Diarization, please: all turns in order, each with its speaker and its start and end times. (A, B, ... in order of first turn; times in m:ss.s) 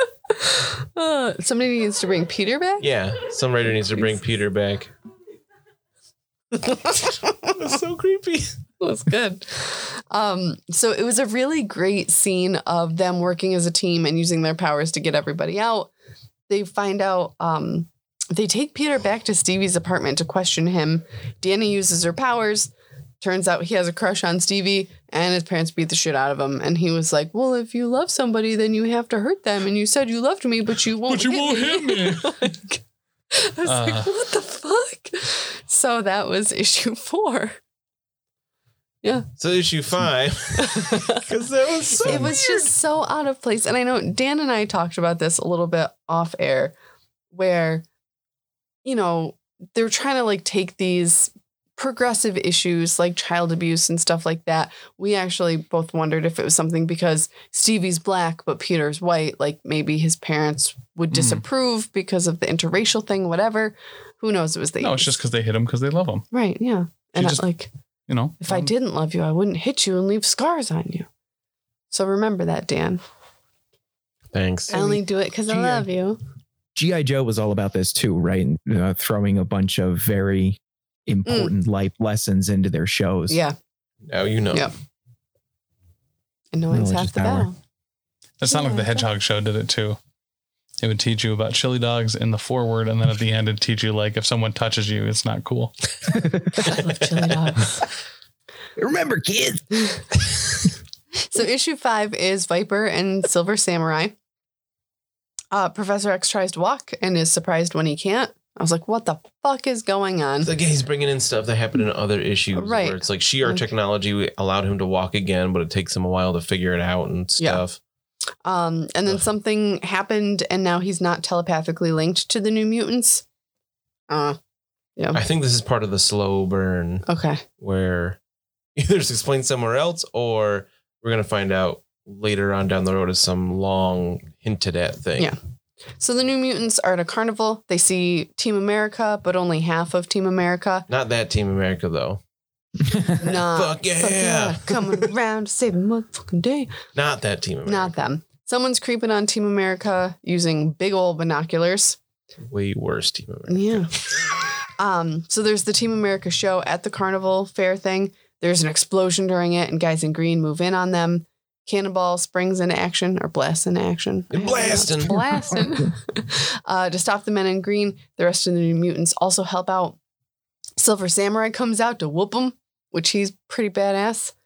0:00.3-0:02.9 A
0:02.8-0:04.9 B
0:06.5-0:07.5 A
0:07.5-0:08.5 B
0:08.8-0:15.9 A
0:16.5-0:37.6 A
0:31.1-0:32.6 C
0:33.6-0:34.1 C
0:39.0-0:39.3 A
0:39.4-0:42.7 B
0:40.6-0:41.2 A
0:42.0-0:46.7 A
0:47.3-0:47.8 A
0:48.8-1:05.2 A
1:01.1-1:01.4 C
1:04.8-1:06.3 C
1:06.3-1:07.7 A
1:07.2-1:07.4 C
1:08.1-1:08.7 C
1:08.4-1:11.1 A
1:11.9-1:13.0 A
1:14.3-1:15.0 B
1:14.7-1:16.2 A
1:15.5-1:15.8 D
1:16.8-1:23.4 D
1:21.3-1:21.5 A
1:23.3-1:23.6 A
1:24.1-1:24.7 B
1:26.5-1:27.6 A
1:26.7-1:27.5 D
1:28.4-1:30.0 C
1:28.5-1:29.1 A
1:30.8-1:35.8 C
1:36.1-1:36.7 D
1:36.5-1:37.8 A
1:38.8-1:40.0 D
1:41.2-1:44.2 A
1:45.5-1:50.5 A
1:50.4-1:57.8 B
1:52.5-1:53.6 A
1:58.4-2:03.2 A
2:04.1-2:04.4 A
2:05.1-2:08.2 B
2:07.1-2:07.4 A
2:08.8-2:15.3 B
2:16.0-2:20.9 A
2:20.9-2:22.2 B
2:23.0-2:25.1 B
2:23.2-2:26.8 A
2:27.0-2:28.0 B
2:27.6-2:32.0 A
2:32.4-2:34.0 B
2:33.5-2:33.9 A
2:34.6-2:50.0 A
2:44.3-2:45.2 B
2:45.1-2:45.9 D
2:50.8-2:54.3 A